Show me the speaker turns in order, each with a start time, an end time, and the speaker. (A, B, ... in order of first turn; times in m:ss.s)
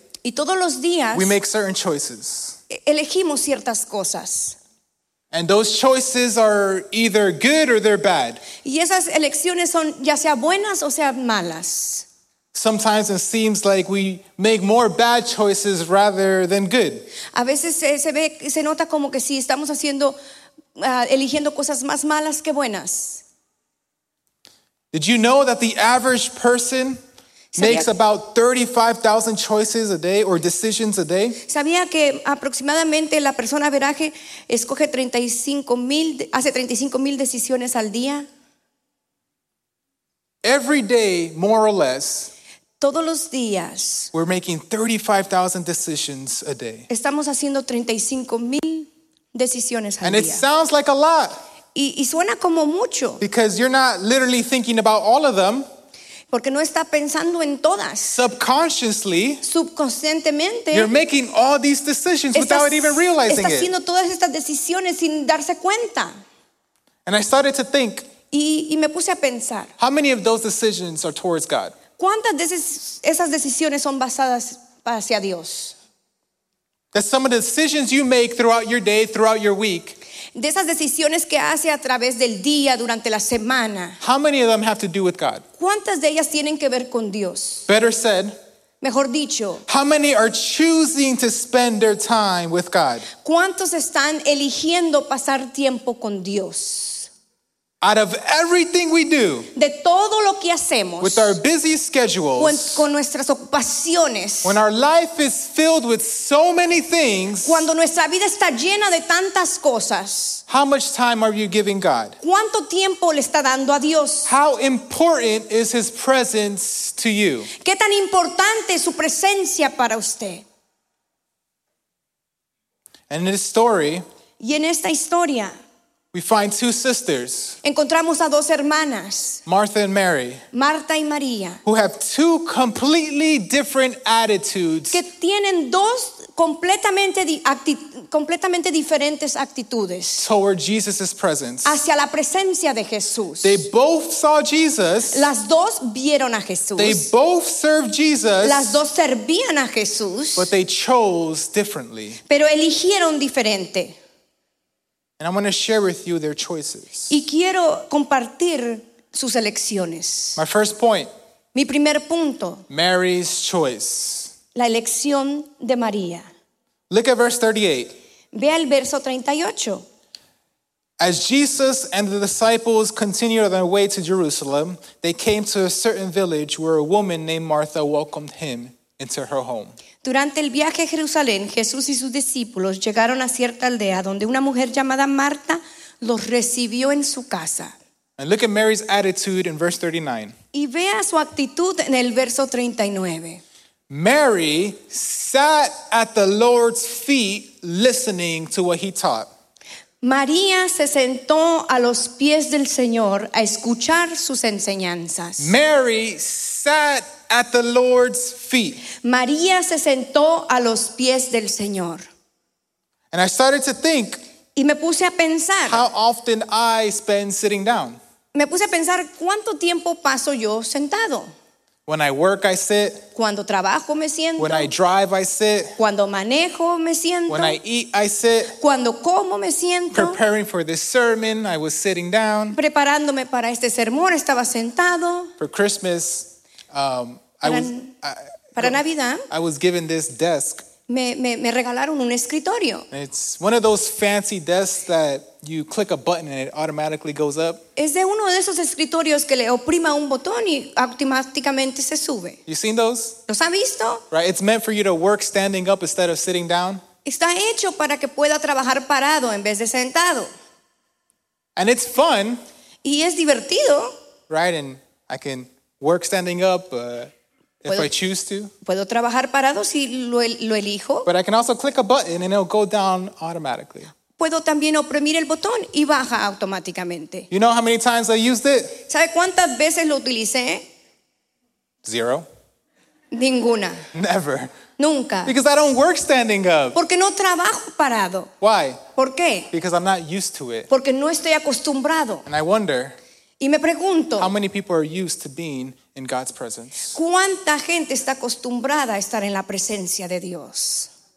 0:00.2-0:01.3 A
0:01.1-0:02.6 B
0:02.7-0:04.6 A
0:05.3-0:08.4 B
0:08.6-0:12.1 A
0:12.5-0:17.1 B
0:17.3-0:20.2 A
0:20.8-0:23.2 A
0:24.9-0:27.0 B
0:27.5-0:27.9 A
0:27.6-0:31.4 B
0:31.5-0:38.3 A
0:40.4-0:42.3 B
0:42.8-0:44.1 A
0:44.1-0:46.9 B
0:46.9-0:50.4 A
0:50.0-0:51.4 B
0:51.7-0:53.2 A
0:53.2-0:55.6 B
0:56.3-0:58.2 A
0:58.1-0:59.4 B
0:59.4-1:00.9 A
1:00.7-1:03.7 B
1:02.4-1:06.1 A
1:07.1-1:08.1 B
1:08.3-1:09.7 A
1:09.8-1:11.8 B
1:12.0-1:15.8 A
1:16.9-1:20.0 B
1:20.4-1:24.0 A
1:24.0-1:25.4 B
1:25.6-1:27.7 A
1:27.7-1:28.4 B
1:28.8-1:29.6 A
1:29.7-1:33.1 B
1:33.2-1:37.1 A
1:37.8-1:39.5 B
1:39.5-1:41.4 A
1:41.0-1:42.8 B
1:42.4-1:44.6 A
1:44.4-1:47.7 B
1:47.4-1:50.4 A
1:50.5-1:52.2 B
1:52.2-1:54.3 A
1:54.3-1:57.5 B
1:57.6-2:00.4 A
2:03.1-2:04.0 B
2:04.4-2:05.5 A
2:06.1-2:07.6 B
2:07.6-2:09.4 A
2:09.5-2:10.4 B
2:10.5-2:11.6 A
2:11.6-2:15.0 B
2:14.9-2:20.3 A
2:20.2-2:21.8 B
2:21.6-2:23.6 A
2:23.4-2:25.3 B
2:25.1-2:27.1 A
2:26.8-2:28.8 B
2:28.4-2:30.5 A
2:30.4-2:32.2 B
2:32.3-2:34.0 A
2:35.2-2:37.2 B
2:37.1-2:40.4 A
2:40.4-2:41.1 B
2:41.5-2:42.7 A
2:42.7-2:44.3 B
2:44.6-2:46.3 A
2:46.9-2:48.0 B
2:48.3-2:49.9 A
2:51.0-2:59.8 B
3:00.0-3:07.8 A
3:08.2-3:10.4 B
3:10.5-3:13.4 A
3:13.9-3:19.3 B
3:20.0-3:25.5 A
3:25.4-3:28.8 B
3:28.9-3:32.1 A
3:33.1-3:34.2 B
3:34.6-3:35.8 A
3:35.7-3:38.0 B
3:38.3-3:41.3 A
3:41.9-3:43.1 B
3:43.2-3:44.7 A
3:44.4-3:45.8 B
3:45.8-3:47.6 A
3:47.3-3:48.6 B
3:48.6-3:50.2 A
3:49.9-3:52.6 B
3:52.5-3:55.3 A
3:55.4-4:00.7 B
3:57.4-3:57.9 A
3:58.6-3:59.3 A
4:00.9-4:02.9 A
4:02.9-4:07.6 B
4:07.8-4:12.4 A
4:12.5-4:13.2 B
4:13.3-4:14.0 A
4:14.1-4:16.8 B
4:17.0-4:20.3 A
4:21.6-4:22.4 B
4:22.8-4:24.0 A
4:24.3-4:28.5 B
4:28.6-4:31.1 A
4:31.0-4:33.9 B
4:34.2-4:37.3 A
4:37.3-4:38.8 B
4:38.9-4:40.7 A
4:41.8-4:42.3 B
4:43.1-4:43.8 A
4:43.9-4:44.6 B
4:44.8-4:45.3 A
4:45.2-4:46.8 B
4:46.8-4:48.3 A
4:48.4-4:48.8 B
4:49.0-4:49.5 A
4:49.5-4:50.7 B
4:50.7-4:52.3 A
4:52.3-4:53.0 B
4:53.4-4:54.3 A
4:54.2-4:57.0 B
4:56.9-5:00.9 A